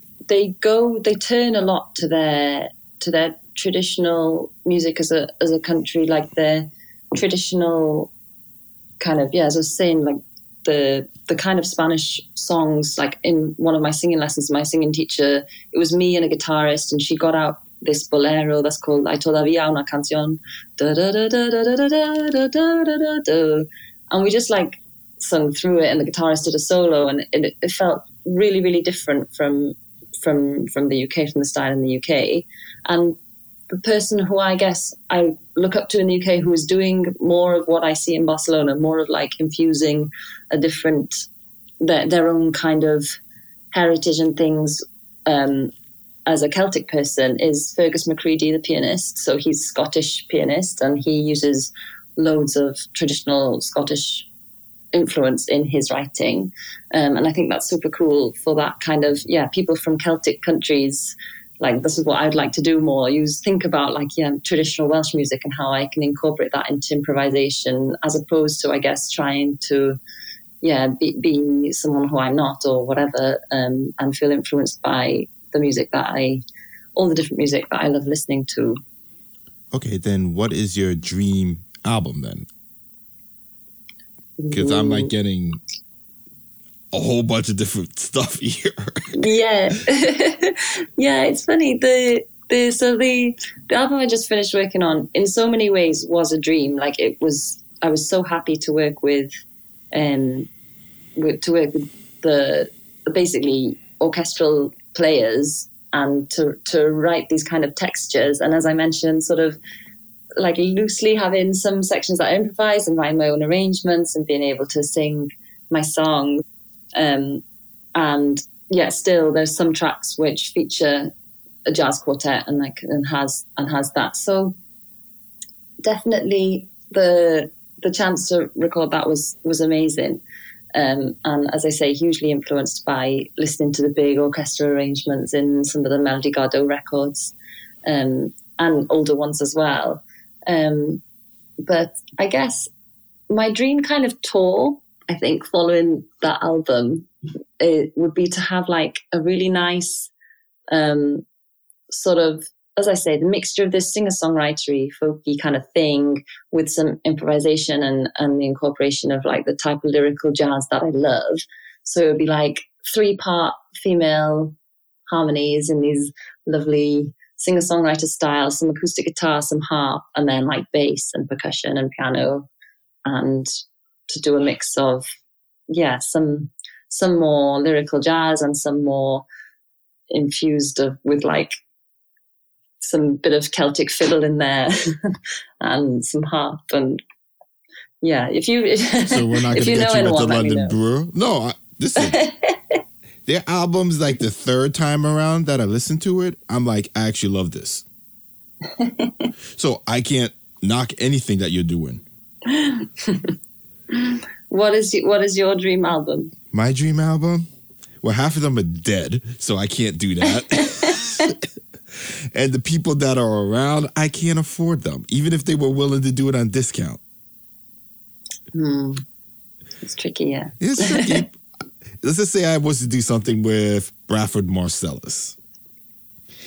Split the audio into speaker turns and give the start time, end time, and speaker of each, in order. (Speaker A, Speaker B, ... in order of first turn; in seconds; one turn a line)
Speaker A: 0.3-8.1
Speaker A: 9.0-33.1
Speaker A: 33.7-41.2
Speaker A: 41.8-43.2
Speaker A: 43.7-45.7
Speaker A: 46.2-54.3
Speaker A: 54.9-70.0
Speaker A: 70.6-76.4
Speaker A: 77.0-78.8
Speaker B: 79.7-82.5
Speaker A: 84.4-85.1
Speaker B: 84.5-85.6
Speaker B: 86.9-89.2
Speaker A: 89.1-99.3
Speaker A: 99.9-100.5
Speaker A: 101.2-109.6
Speaker A: 110.4-116.4
Speaker A: 116.9-117.4
Speaker A: 117.9-121.1
Speaker A: 121.7-124.5
Speaker A: 125.8-130.2
Speaker A: 130.7-137.3
Speaker A: 137.8-141.0
Speaker A: 141.6-142.7
Speaker A: 143.3-147.1
Speaker A: 147.6-150.1
Speaker A: 150.7-151.2
Speaker A: 151.9-164.6
Speaker A: 165.1-172.5
Speaker A: 173.1-173.5
Speaker A: 174.1-175.1
Speaker A: 175.7-179.2
Speaker A: 180.1-181.6
Speaker A: 182.8-187.0
Speaker A: 188.0-190.8
Speaker B: 189.1-192.2
Speaker A: 192.0-192.8
Speaker B: 193.2-197.8
Speaker A: 198.7-199.3
Speaker B: 199.5-202.0
Speaker A: 202.4-203.3
Speaker A: 203.9-206.3
Speaker B: 206.5-207.5
Speaker B: 208.0-217.0
Speaker A: 210.4-211.3
Speaker A: 218.5-219.0
Speaker A: 219.8-221.2
Speaker B: 220.6-221.4
Speaker B: 222.0-225.3